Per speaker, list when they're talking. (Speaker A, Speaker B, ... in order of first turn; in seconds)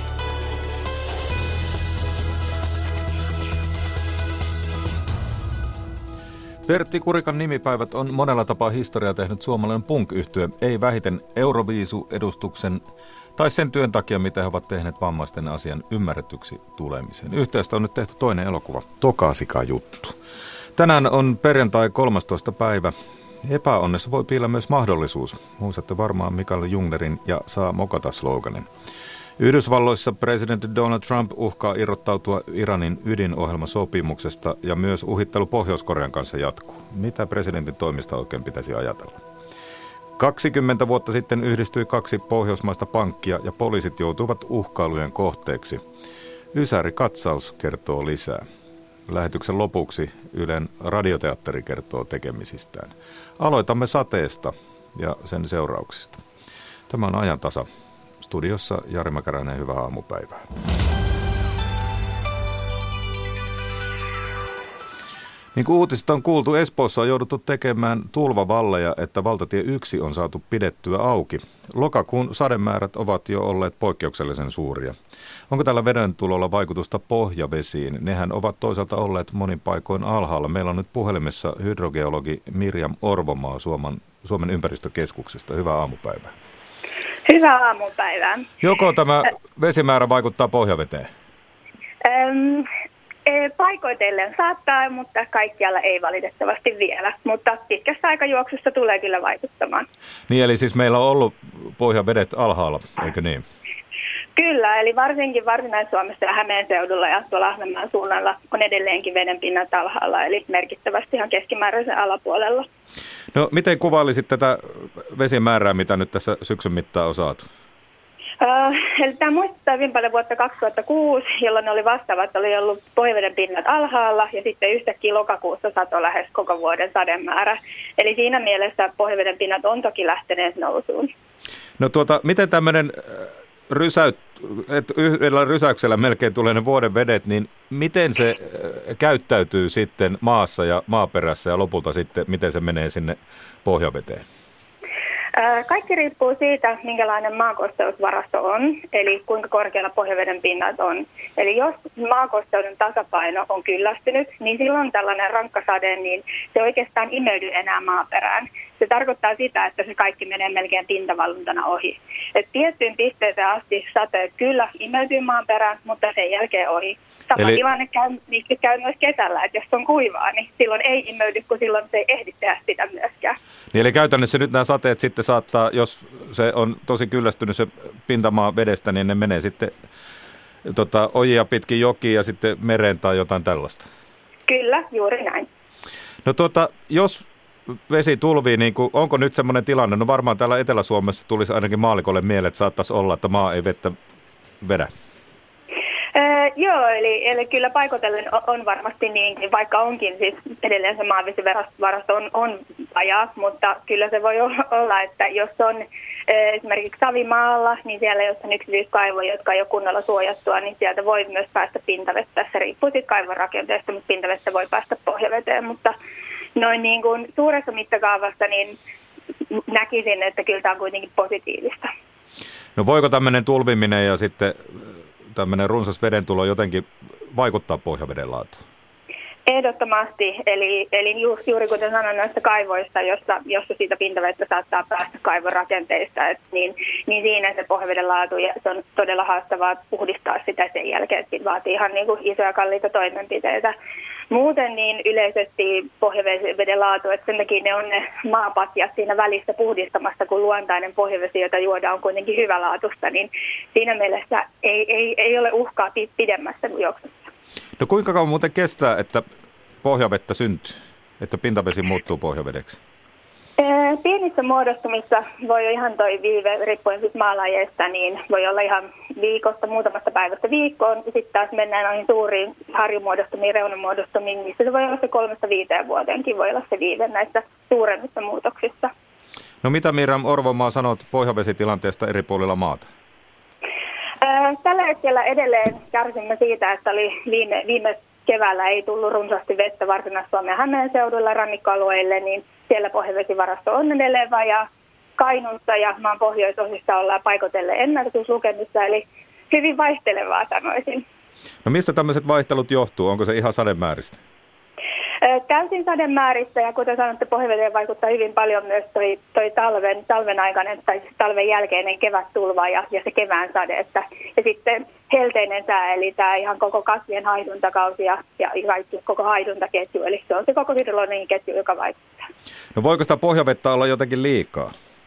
Speaker A: 6.7-12.8, 13.4-20.1, 20.8-28.7, 29.4-39.2, 40.2-45.8, 46.5-48.4, 49.1-56.2, 56.9-57.7, 58.2-60.5, 65.5-74.9, 75.5-86.3, 88.6-91.1, 100.3-103.4, 113.3-117.5, 131.8-144.2, 167.3-167.6, 173.7-179.7, 180.6-183.9, 186.2-187.2, 187.9-193.9, 194.6-194.9, 222.8-228.6, 257.8-259.2, 259.8-262.8, 279.6-282.9, 301.6-304.2, 322.7-324.7
Speaker B: 87.2-88.5, 92.0-92.7, 93.2-99.8, 104.3-112.7, 118.4-131.1, 145.4-173.3, 184.5-185.5, 196.2-215.9, 216.6-218.8, 219.7-221.9, 229.5-243.7, 244.3-257.2, 263.6-278.9, 284.2-294.6, 295.2-301.0, 305.2-322.0